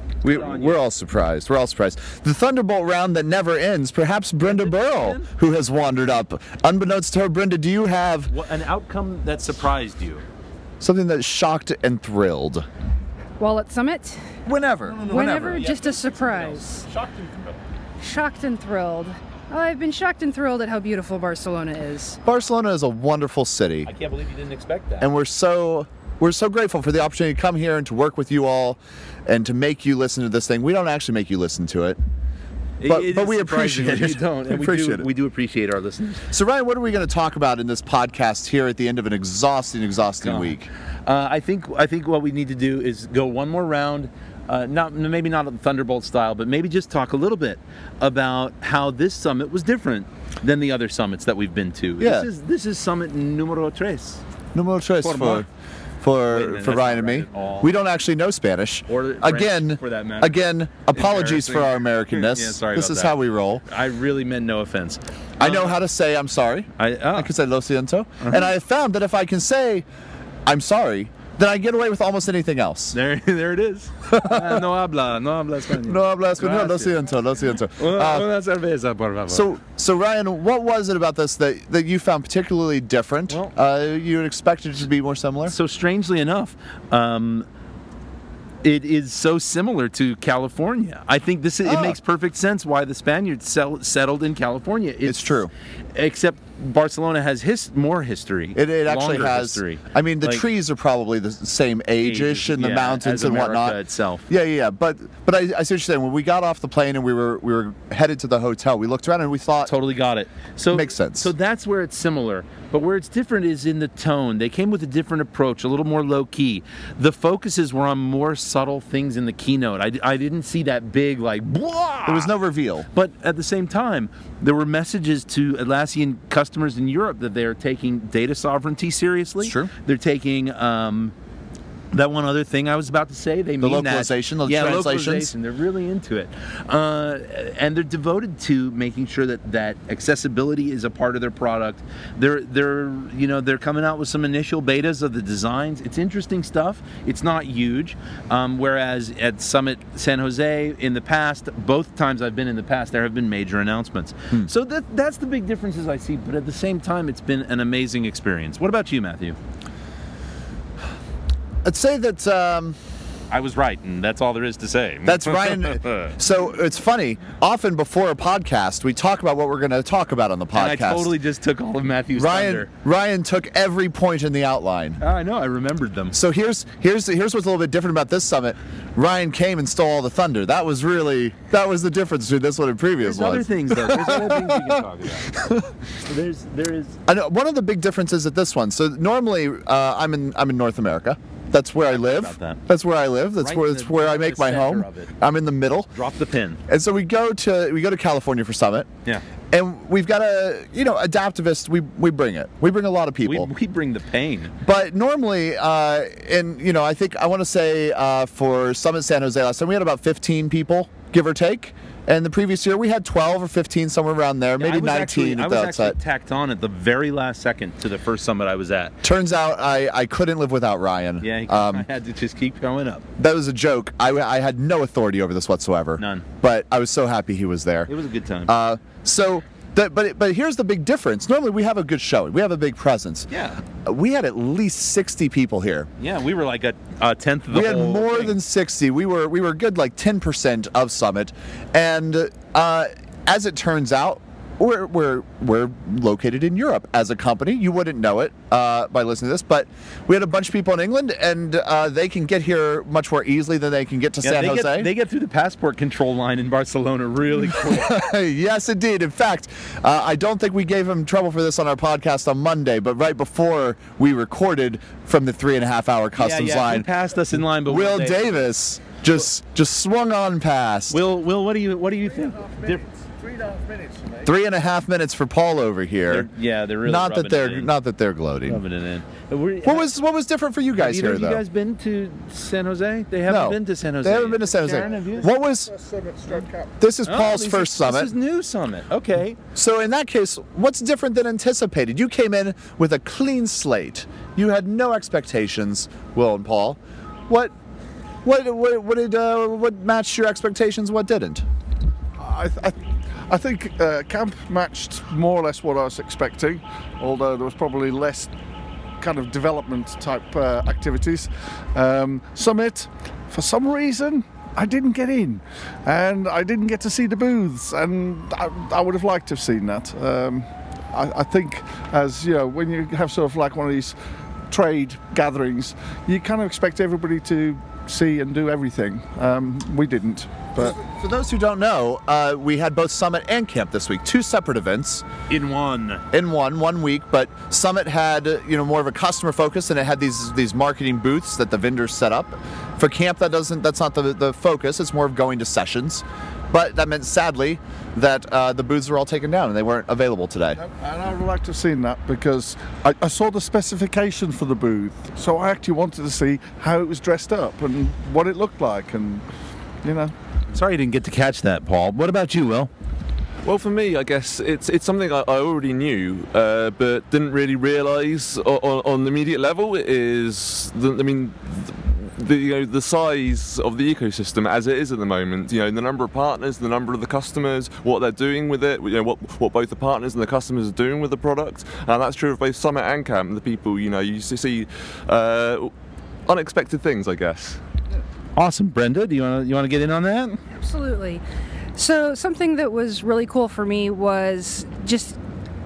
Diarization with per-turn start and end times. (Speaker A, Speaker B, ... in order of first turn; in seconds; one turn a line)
Speaker A: 0.2-8.3
Speaker B: 0.2-0.8
Speaker B: 4.4-5.3
Speaker B: 8.3-10.2
Speaker A: 10.8-12.7
Speaker C: 13.4-14.2
Speaker A: 14.5-15.6
Speaker B: 14.9-17.6
Speaker C: 15.0-16.8
Speaker C: 18.0-22.2
Speaker A: 22.3-23.9
Speaker B: 23.9-25.1
Speaker A: 25.0-32.0
Speaker B: 32.8-36.2
Speaker A: 32.9-35.1
Speaker A: 36.3-40.7
Speaker B: 40.2-54.2
Speaker A: 52.0-52.3
Speaker A: 54.5-55.5
Speaker B: 55.0-55.5
Speaker A: 56.0-63.6
Speaker B: 56.3-57.7
Speaker B: 58.9-65.8
Speaker A: 65.4-69.8
Speaker B: 66.8-67.3
Speaker B: 68.2-68.5
Speaker A: 70.5-73.0
Speaker B: 72.9-77.0
Speaker A: 74.1-74.6
Speaker A: 75.8-78.3
Speaker B: 77.8-79.5
Speaker A: 79.3-85.5
Speaker B: 85.5-87.5
Speaker B: 88.6-95.4
Speaker A: 91.6-92.0
Speaker A: 95.0-95.5
Speaker B: 96.0-100.5
Speaker A: 98.6-109.7
Speaker B: 102.0-104.3
Speaker B: 109.7-122.3
Speaker A: 110.7-111.3
Speaker A: 122.1-122.9
Speaker B: 122.9-131.1
Speaker A: 129.4-129.7
Speaker B: 131.9-159.4
Speaker A: 133.6-135.3
Speaker A: 161.6-162.8
Speaker B: 163.3-166.1
Speaker A: 165.1-171.1
Speaker B: 170.5-172.7
Speaker A: 172.2-175.0
Speaker B: 175.0-176.2
Speaker A: 176.1-184.8
Speaker B: 183.0-185.3
Speaker A: 185.3-185.7
Speaker B: 186.0-187.0
Speaker A: 187.1-195.9
Speaker B: 191.9-192.6
Speaker B: 193.4-195.1
Speaker B: 195.9-196.6
Speaker A: 196.7-198.9
Speaker A: 199.5-203.5
Speaker B: 203.2-204.5
Speaker A: 204.6-216.0
Speaker B: 214.6-218.9
Speaker A: 219.0-221.9
Speaker B: 221.2-223.0
Speaker A: 223.2-227.9
Speaker B: 226.0-226.2
Speaker B: 227.9-228.5
Speaker A: 228.5-233.3
Speaker B: 233.3-233.6
Speaker A: 233.8-235.9
Speaker B: 236.0-238.4
Speaker A: 237.5-254.9
Speaker B: 254.2-257.9
Speaker A: 257.6-266.9
Speaker B: 266.2-268.4
Speaker A: 267.6-271.0
Speaker B: 270.9-272.9
Speaker A: 274.2-276.3
Speaker B: 276.1-277.7
Speaker A: 276.8-278.6
Speaker B: 278.5-279.9
Speaker A: 279.6-281.4
Speaker B: 280.8-285.3
Speaker A: 283.3-285.7
Speaker D: 284.7-286.7
Speaker A: 286.8-288.1
Speaker B: 287.1-289.4
Speaker A: 289.6-297.5
Speaker A: 298.2-301.4
Speaker D: 302.2-308.3
Speaker D: 309.0-323.9
Speaker D: 324.5-330.7
Speaker A: 330.6-335.0
Speaker B: 335.3-336.0
Speaker A: 336.1-350.6
Speaker D: 350.6-359.2
Speaker D: 359.8-360.1
Speaker B: 360.5-362.7
Speaker E: 363.4-385.7
Speaker E: 386.3-387.6
Speaker B: 388.4-390.4
Speaker C: 390.6-391.2
Speaker C: 391.8-395.2